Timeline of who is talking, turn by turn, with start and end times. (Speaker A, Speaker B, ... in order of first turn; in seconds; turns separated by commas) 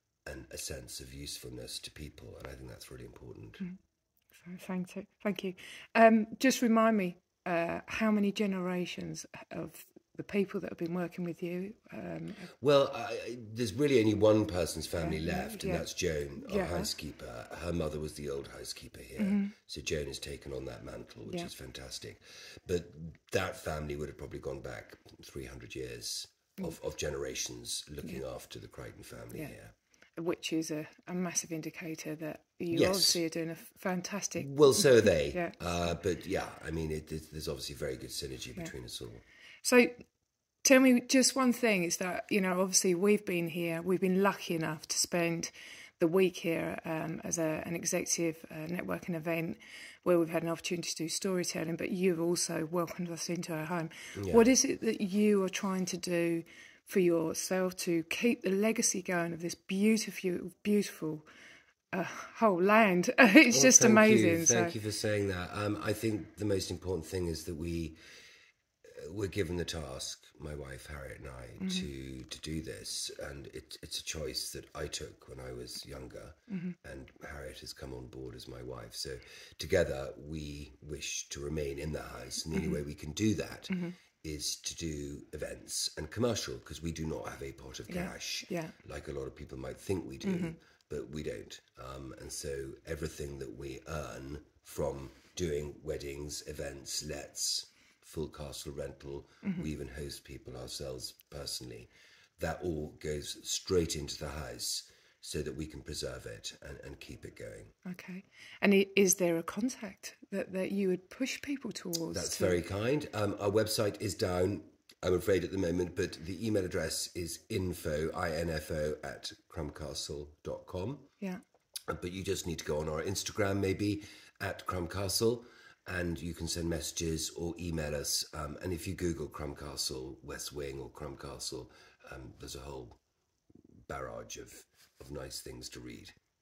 Speaker A: 0.2-3.6, Speaker B: 4.4-12.5, Speaker A: 12.6-29.7, Speaker B: 15.0-15.9, Speaker B: 16.4-16.9, Speaker B: 19.2-19.5, Speaker B: 30.2-35.6, Speaker A: 32.7-33.2, Speaker A: 34.4-39.2, Speaker B: 39.6-40.0, Speaker B: 40.6-61.3, Speaker A: 54.2-54.5, Speaker B: 61.9-64.7, Speaker A: 63.5-68.0, Speaker A: 69.0-107.7, Speaker B: 71.6-71.9, Speaker B: 76.5-76.8, Speaker B: 82.5-82.8, Speaker B: 83.7-84.0, Speaker B: 87.9-88.7, Speaker B: 90.2-90.5, Speaker B: 107.8-112.6, Speaker A: 112.1-121.1, Speaker A: 121.9-133.0, Speaker A: 133.9-136.1